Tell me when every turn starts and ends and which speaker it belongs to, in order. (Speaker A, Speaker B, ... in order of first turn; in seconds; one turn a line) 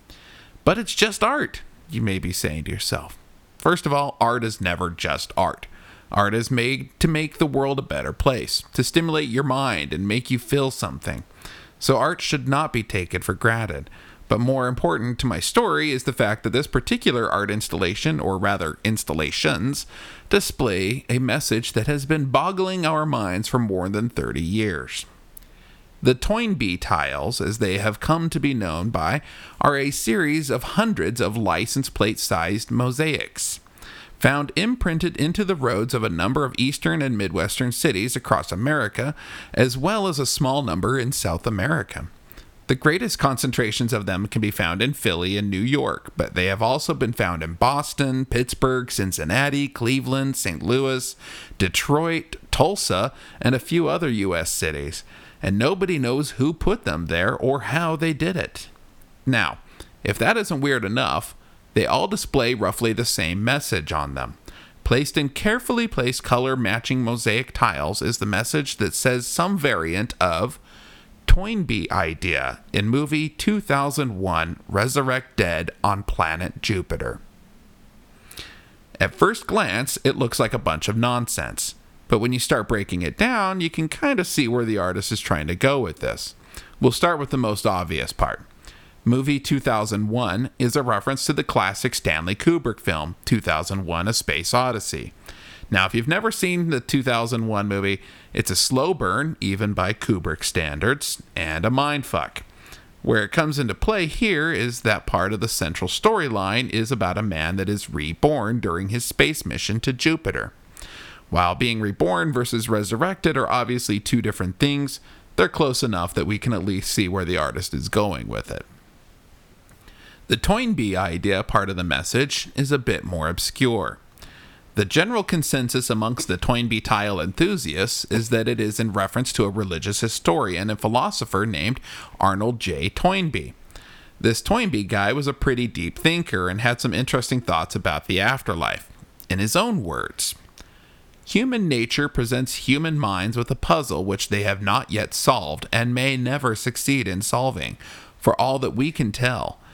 Speaker A: 0.6-11.2
Speaker A: 11.8-25.1
Speaker A: 26.0-33.6
Speaker A: 34.2-42.1
Speaker A: 42.7-58.7
Speaker A: 59.2-70.6
Speaker A: 71.3-77.2
Speaker A: 79.0-88.4
Speaker A: 89.0-95.1
Speaker A: 95.7-102.4
Speaker A: 103.0-110.5
Speaker A: 111.3-118.6
Speaker A: 120.3-124.0
Speaker A: 124.7-133.5
Speaker A: 134.2-140.4
Speaker A: 141.2-149.6